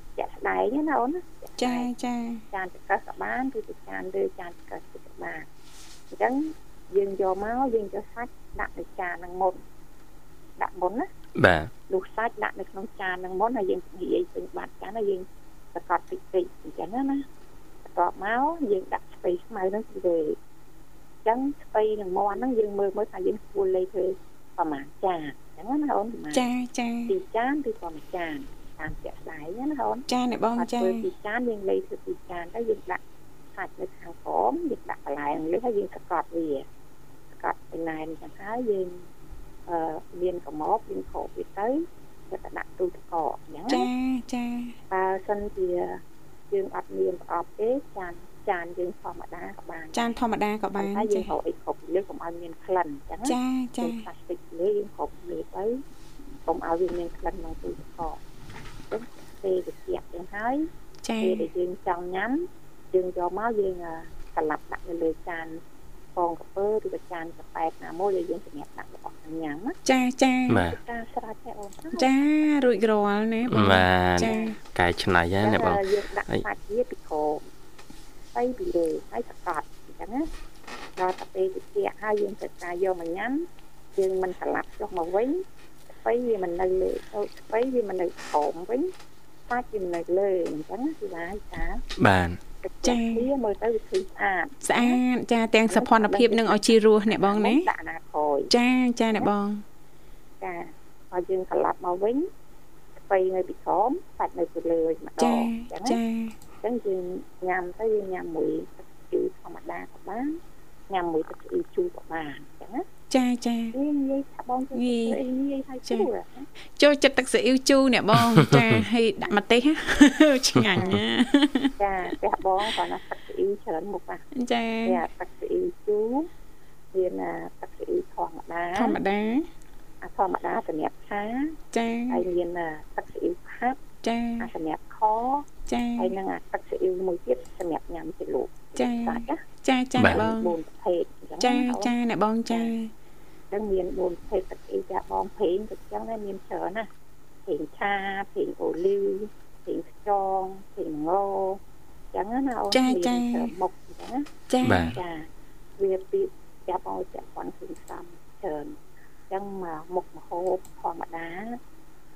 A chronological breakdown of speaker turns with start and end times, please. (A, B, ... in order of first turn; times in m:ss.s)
0:00.2-0:01.9 A
0:01.6-0:02.4 B
0:02.5-0:05.4 A
0:06.1-0:09.6 A
0:10.6-0:11.1 A
0:11.4-0:11.7 C
0:11.9-0:17.2 A
0:17.8-0:20.4 A
0:21.2-0:26.5 A
0:26.3-0:27.1 B
0:27.1-0:33.0 A
0:30.1-0:31.1 B
0:33.5-0:36.6 A
0:37.3-0:39.1 A
0:39.7-0:43.9 A
0:43.7-0:44.8 B
0:44.9-0:50.2 A
0:49.9-0:51.3 B
0:50.8-0:55.8 A
0:53.2-0:54.1 B
0:56.4-0:58.2 A
0:58.9-1:00.7 A
1:01.0-1:01.5 B
1:01.2-1:05.6 A
1:06.2-1:09.8 A
1:09.8-1:10.6 B
1:10.5-1:10.8 C
1:10.5-1:12.2 A
1:11.9-1:14.6 B
1:13.5-1:16.4 C
1:14.2-1:14.5 A
1:15.4-1:17.4 A
1:18.3-1:20.3 A
1:21.0-1:25.4 A
1:26.0-1:28.9 A
1:29.5-1:31.8 A
1:32.0-1:32.4 C
1:32.6-1:35.0 A
1:32.8-1:33.3 B
1:34.6-1:37.7 B
1:35.6-1:38.5 A
1:38.5-1:39.6 B
1:40.4-1:42.3 A
1:43.1-1:46.0 A
1:45.2-1:46.3 B
1:46.6-1:50.4 A
1:50.9-1:52.8 A
1:53.1-1:53.7 B
1:53.7-1:56.5 A
1:54.7-1:55.2 B
1:56.8-2:01.7 B
1:58.4-1:58.8 C
2:00.6-2:01.0 C
2:01.8-2:04.2 A
2:04.3-2:05.0 B
2:04.8-2:06.3 A
2:06.9-2:09.0 A
2:08.7-2:09.5 B
2:10.0-2:13.8 A
2:11.7-2:12.2 B
2:14.0-2:14.5 B
2:14.4-2:19.4 A
2:15.7-2:16.1 B
2:18.8-2:20.6 B
2:20.0-2:21.9 A
2:21.4-2:22.9 B
2:23.5-2:26.9 A
2:27.5-2:31.6 A
2:32.1-2:38.8 A
2:32.7-2:33.5 B
2:34.5-2:35.0 B
2:34.6-2:35.0 C
2:39.3-2:41.6 A